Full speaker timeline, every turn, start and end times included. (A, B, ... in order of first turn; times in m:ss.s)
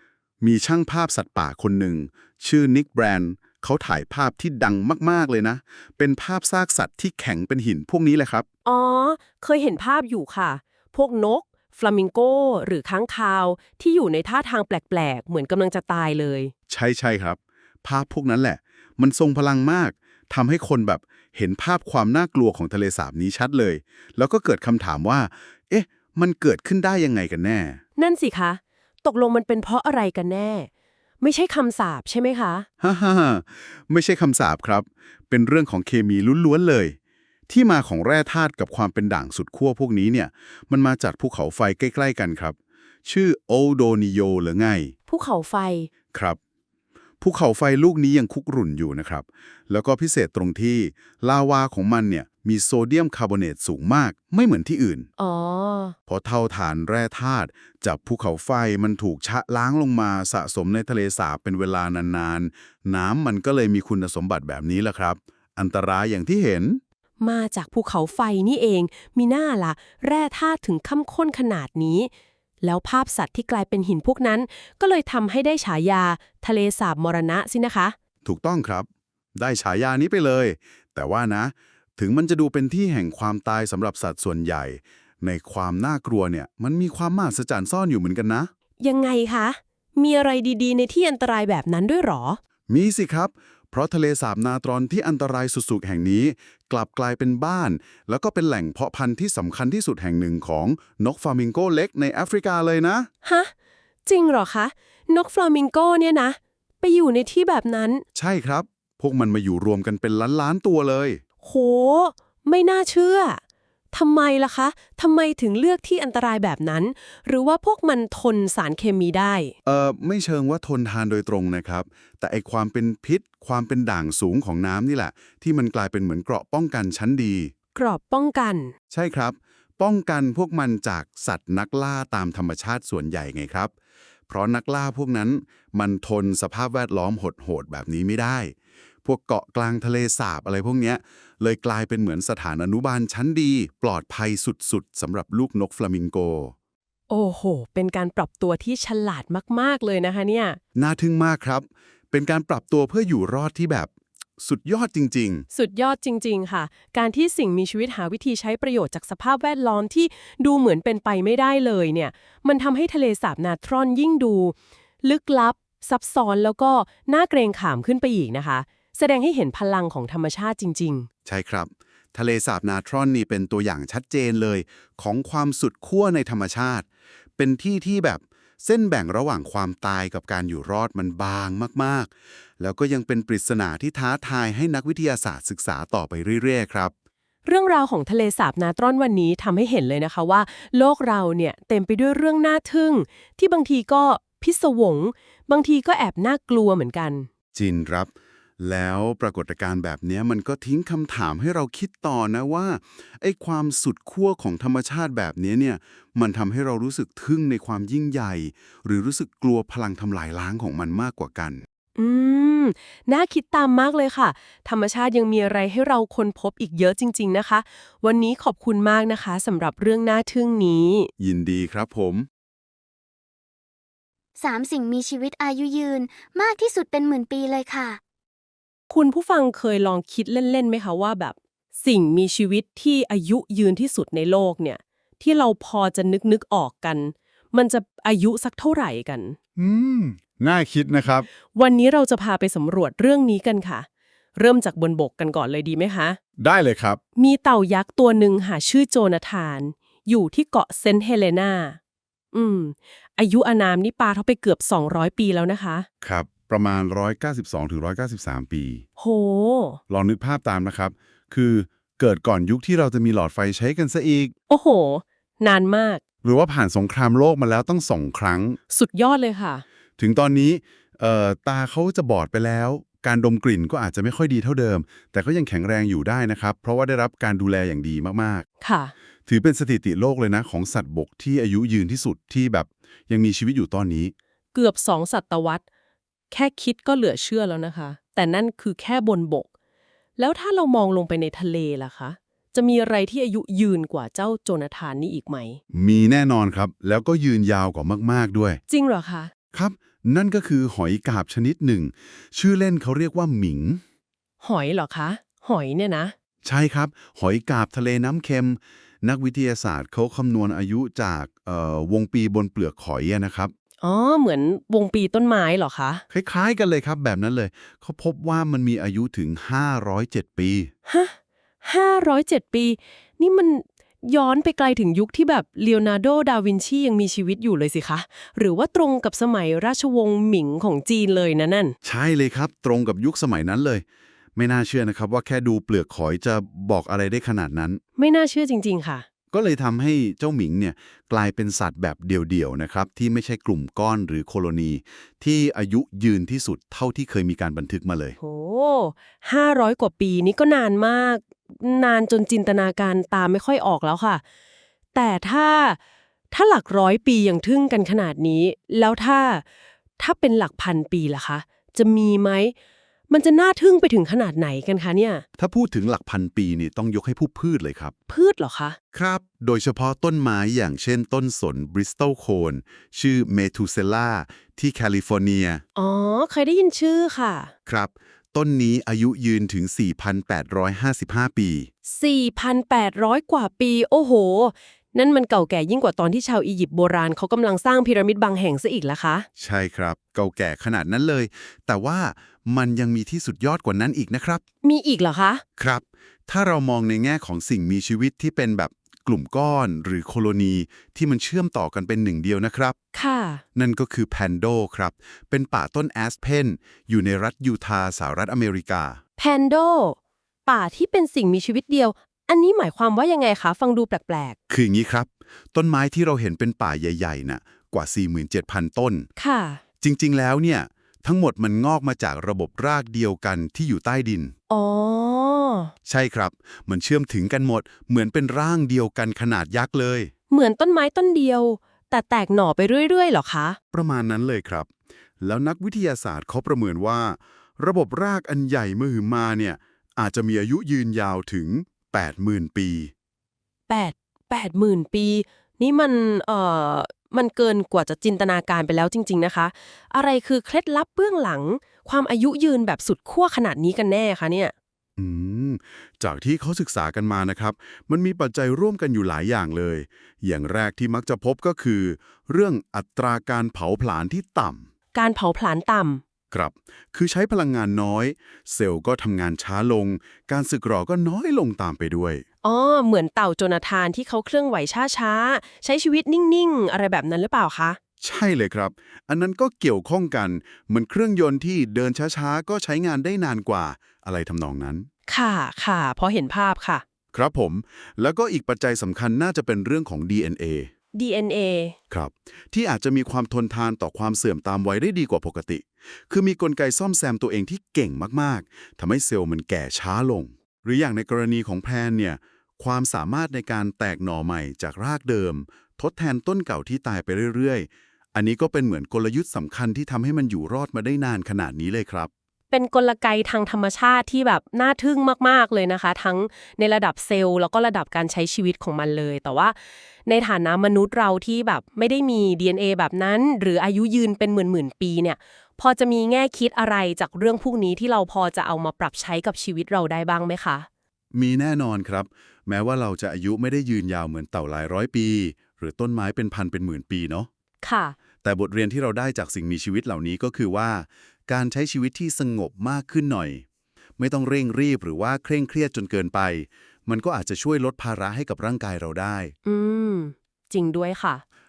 0:00.4-0:08.4 A
0:08.6-0:16.5 B
0:16.7-0:27.8 A
0:28.0-0:30.7 B
0:31.2-0:32.7 B
0:32.8-0:37.0 A
0:37.5-0:44.9 A
0:45.1-0:45.9 B
0:46.1-0:46.4 A
0:47.2-0:55.1 A
0:55.2-0:55.9 B
0:56.1-1:06.8 A
1:07.2-1:12.1 B
1:12.6-1:18.0 B
1:18.2-1:28.5 A
1:28.8-1:32.4 B
1:32.7-1:43.1 A
1:43.2-1:43.5 B
1:44.0-1:48.0 B
1:48.1-1:51.2 A
1:51.4-1:53.4 B
1:53.9-1:59.5 B
1:59.6-2:07.5 A
2:07.7-2:08.7 B
2:08.9-2:13.7 A
2:14.3-2:26.5 A
2:27.1-2:30.6 B
2:30.7-2:35.4 A
2:35.5-2:51.1 B
2:51.2-2:56.8 A
2:57.4-3:06.9 A
3:07.4-3:17.3 B
3:17.5-3:31.6 A
3:32.0-3:41.1 B
3:41.2-3:42.3 A
3:44.4-3:48.0 C
3:48.9-3:59.4 B
3:59.6-4:01.3 A
4:01.5-4:06.2 B
4:06.4-4:07.0 A
4:07.2-4:11.8 B
4:12.3-4:15.9 B
4:16.0-4:18.8 A
4:19.0-4:19.8 B
4:19.9-4:24.3 A
4:24.5-4:26.0 B
4:26.2-4:28.6 A
4:28.7-4:29.6 B
4:30.0-4:38.4 A
4:38.6-4:38.9 B
4:39.3-4:44.1 A
4:44.5-4:45.6 B
4:46.3-4:49.5 B
4:50.2-4:55.6 B
4:55.7-4:58.6 A
4:58.7-4:59.3 B
4:59.5-5:03.8 A
5:04.4-5:06.1 B
5:06.4-5:13.5 A
5:13.8-5:16.0 B
5:16.1-5:20.7 A
5:20.9-5:31.7 B
5:31.8-5:33.8 A
5:34.4-5:37.8 A
5:38.0-5:39.0 B
5:39.3-5:48.2 A
5:48.2-5:54.2 B
5:54.9-5:55.8 B
5:56.3-5:59.4 B
6:00.0-6:02.5 B
6:03.1-6:05.2 B
6:05.4-6:07.9 A
6:08.1-6:08.8 B
6:08.9-6:15.6 A
6:15.8-6:17.5 B
6:17.6-6:21.7 A
6:21.8-6:29.3 B
6:29.4-6:34.4 A
6:34.6-6:35.4 B
6:35.6-6:42.8 A
6:42.9-6:43.4 B
6:43.5-6:49.0 A
6:49.2-6:54.4 B
6:54.5-6:59.1 A
6:59.2-6:59.6 B
6:59.8-7:04.3 A
7:04.5-7:05.7 B
7:05.8-7:10.1 A
7:10.3-7:13.6 B
7:13.7-7:22.9 A
7:23.7-7:34.5 B
7:35.0-7:44.7 A
7:44.9-7:46.0 B
7:46.3-7:52.2 A
7:52.4-7:57.8 B
7:58.0-8:04.9 A
8:05.1-8:06.8 B
8:07.1-8:10.7 A
8:10.9-8:11.8 B
8:11.9-8:32.1 A
8:32.5-8:50.7 B
8:51.1-8:57.3 A
8:57.6-8:58.0 B
8:58.2-9:03.4 A
9:04.0-9:09.3 A
9:09.4-9:11.2 B